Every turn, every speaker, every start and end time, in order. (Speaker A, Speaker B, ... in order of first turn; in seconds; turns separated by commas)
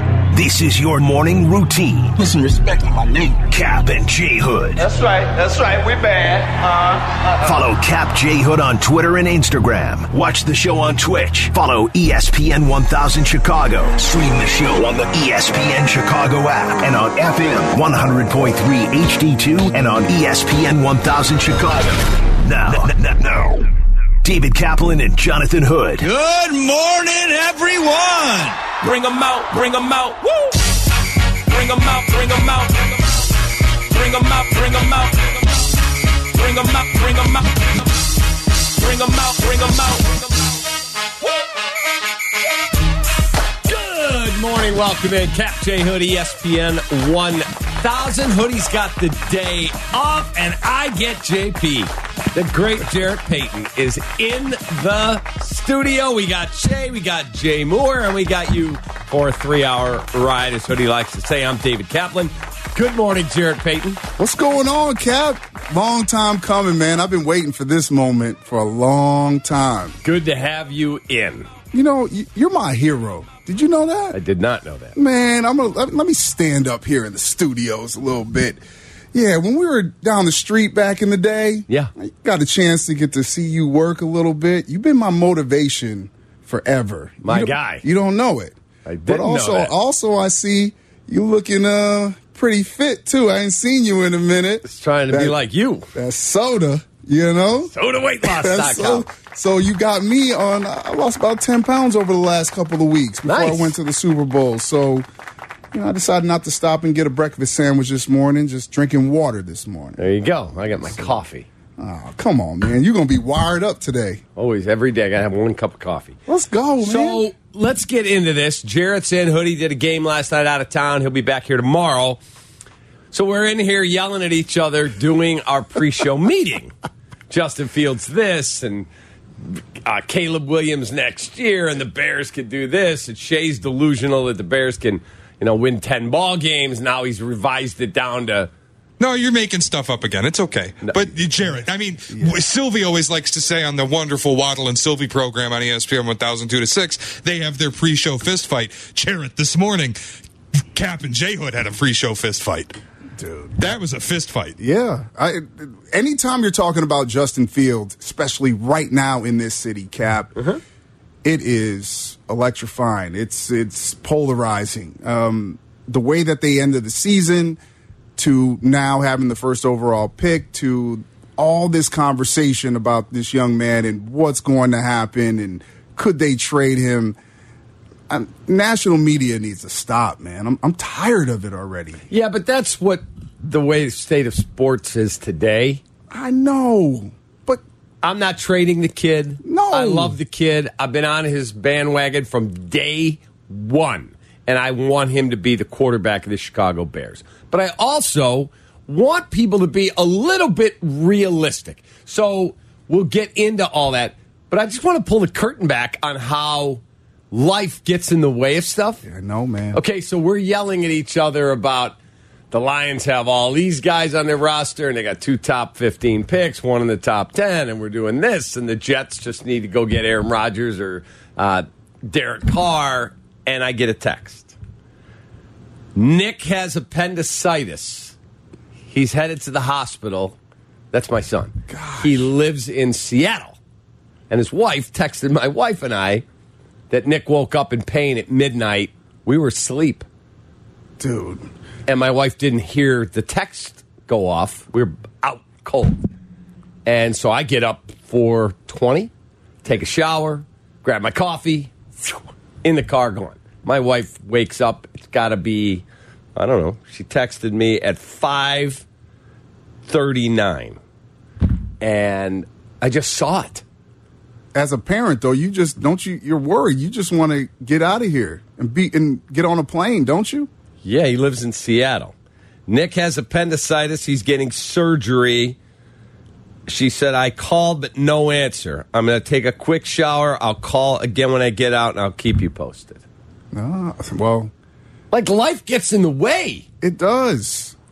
Speaker A: 0.3-2.2, Speaker A: 3.5-4.8, Speaker B: 4.8-7.6, Speaker A: 7.4-23.7, Speaker A: 24.2-26.1, Speaker C: 26.0-30.6, Speaker C: 31.5-33.2, Speaker C: 33.9-35.7, Speaker C: 36.3-37.9, Speaker C: 38.7-40.5, Speaker D: 43.6-64.0, Speaker E: 64.2-70.0, Speaker D: 70.0-71.5, Speaker E: 71.7-74.2, Speaker D: 74.1-75.0, Speaker E: 74.9-78.6, Speaker E: 79.1-95.4, Speaker D: 87.2-87.8, Speaker D: 88.8-89.7, Speaker D: 94.6-95.9, Speaker E: 95.9-105.0, Speaker D: 97.7-99.1, Speaker D: 103.2-103.7, Speaker E: 105.7-110.1, Speaker D: 110.0-111.5, Speaker E: 111.8-114.2, Speaker D: 114.3-116.2, Speaker E: 116.3-117.2, Speaker D: 116.8-122.2, Speaker D: 123.1-126.7, Speaker D: 127.3-128.9, Speaker D: 129.4-138.5, Speaker F: 139.0-150.0, Speaker E: 142.1-142.4, Speaker F: 150.7-152.8, Speaker E: 153.2-153.8, Speaker F: 153.6-154.6, Speaker E: 154.6-160.4, Speaker E: 161.2-167.6, Speaker E: 168.2-177.2, Speaker E: 178.1-182.0, Speaker D: 182.1-185.8, Speaker E: 186.1-187.6, Speaker D: 188.0-209.0, Speaker E: 189.4-190.2, Speaker E: 209.0-209.8, Speaker D: 209.7-211.9, Speaker D: 212.5-224.5, Speaker D: 225.9-228.1, Speaker D: 228.9-230.3, Speaker D: 230.9-233.6, Speaker E: 231.7-232.3, Speaker D: 234.3-236.2, Speaker D: 236.9-240.1, Speaker E: 241.0-241.5, Speaker D: 241.9-246.0, Speaker D: 246.8-249.1, Speaker D: 249.6-255.8, Speaker D: 256.4-258.8, Speaker D: 259.9-260.8, Speaker D: 261.8-263.6, Speaker E: 264.5-270.5, Speaker D: 270.8-272.1, Speaker D: 272.7-275.6, Speaker D: 276.7-283.0, Speaker E: 283.5-284.5, Speaker D: 285.1-286.6, Speaker E: 286.8-287.7